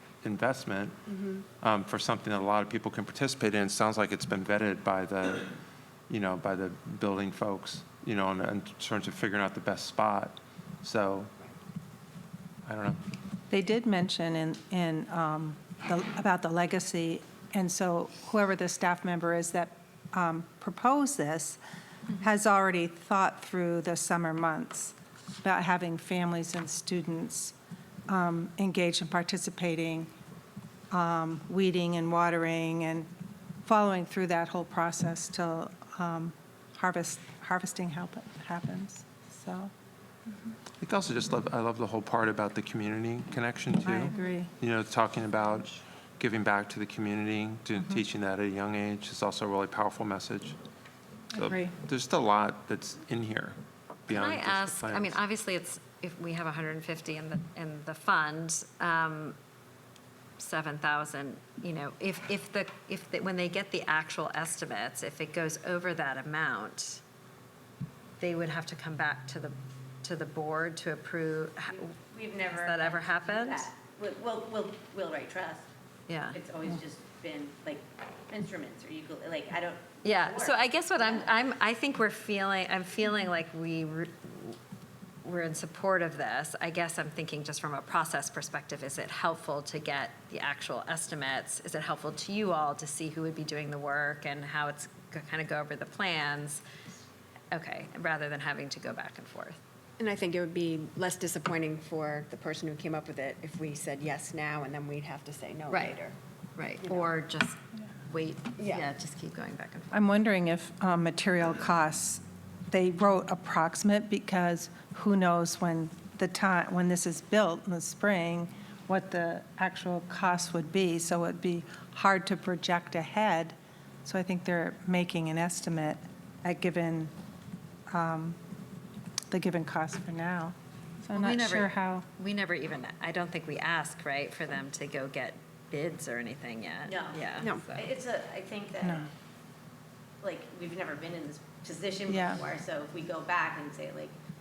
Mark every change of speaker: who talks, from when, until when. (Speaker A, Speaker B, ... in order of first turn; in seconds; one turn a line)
Speaker A: 0.2-1.0
Speaker B: 1.1-1.5
Speaker A: 1.6-5.5
Speaker A: 6.1-11.3
Speaker A: 12.7-13.0
Speaker C: 13.5-21.6
Speaker C: 22.1-27.6
Speaker C: 28.1-30.1
Speaker C: 30.9-33.1
Speaker C: 33.6-39.7
Speaker A: 40.8-50.6
Speaker C: 43.8-44.5
Speaker C: 51.3-51.8
Speaker A: 51.3-55.2
Speaker D: 54.1-59.4
Speaker D: 60.4-67.0
Speaker D: 68.2-71.9
Speaker E: 71.7-75.7
Speaker D: 72.5-73.7
Speaker D: 76.1-76.4
Speaker E: 76.3-81.3
Speaker D: 80.0-84.6
Speaker D: 85.2-96.6
Speaker D: 97.5-99.6
Speaker B: 100.0-106.2
Speaker D: 105.7-106.0
Speaker D: 106.6-107.6
Speaker B: 106.8-107.1
Speaker D: 108.1-110.0
Speaker B: 108.6-108.9
Speaker C: 109.9-127.1
Speaker C: 127.9-128.4
Speaker C: 129.3-130.6
Speaker C: 131.1-132.1
Speaker D: 131.1-137.9
Speaker E: 136.9-139.1
Speaker C: 138.8-139.1
Speaker E: 140.2-144.1
Speaker C: 142.1-142.4